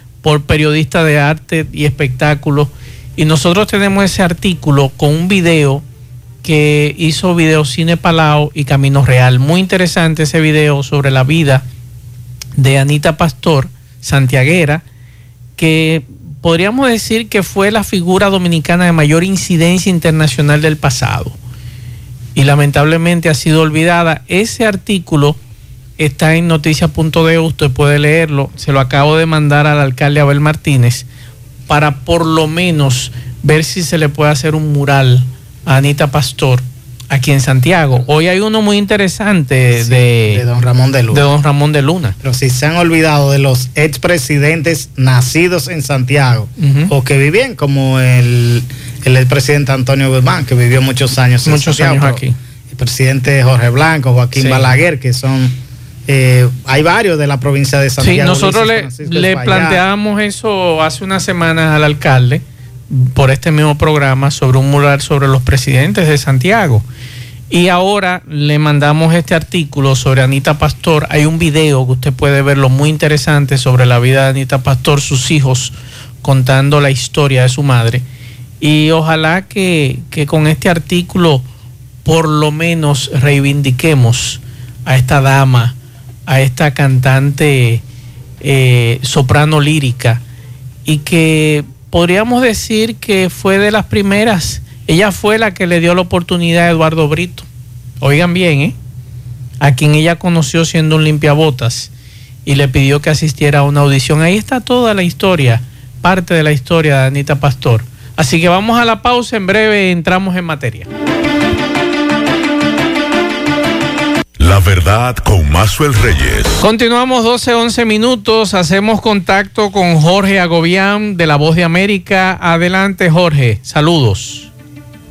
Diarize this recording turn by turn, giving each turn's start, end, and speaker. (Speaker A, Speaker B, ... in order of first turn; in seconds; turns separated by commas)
Speaker A: 0.2-5.8, Speaker A: 6.4-11.6, Speaker A: 12.6-14.8, Speaker A: 15.6-21.4, Speaker A: 22.4-25.4, Speaker A: 26.0-31.1, Speaker A: 31.7-40.5, Speaker B: 39.8-41.2, Speaker A: 41.1-42.2, Speaker B: 42.2-59.8, Speaker A: 46.6-46.9, Speaker A: 51.5-52.4, Speaker A: 54.4-54.6, Speaker A: 58.0-66.8, Speaker A: 67.5-78.0, Speaker A: 78.6-81.5, Speaker A: 82.0-87.8, Speaker A: 88.4-90.2, Speaker A: 90.8-97.5, Speaker A: 98.0-98.8, Speaker A: 99.6-101.9, Speaker A: 102.5-110.9, Speaker C: 114.4-116.7, Speaker A: 116.6-124.5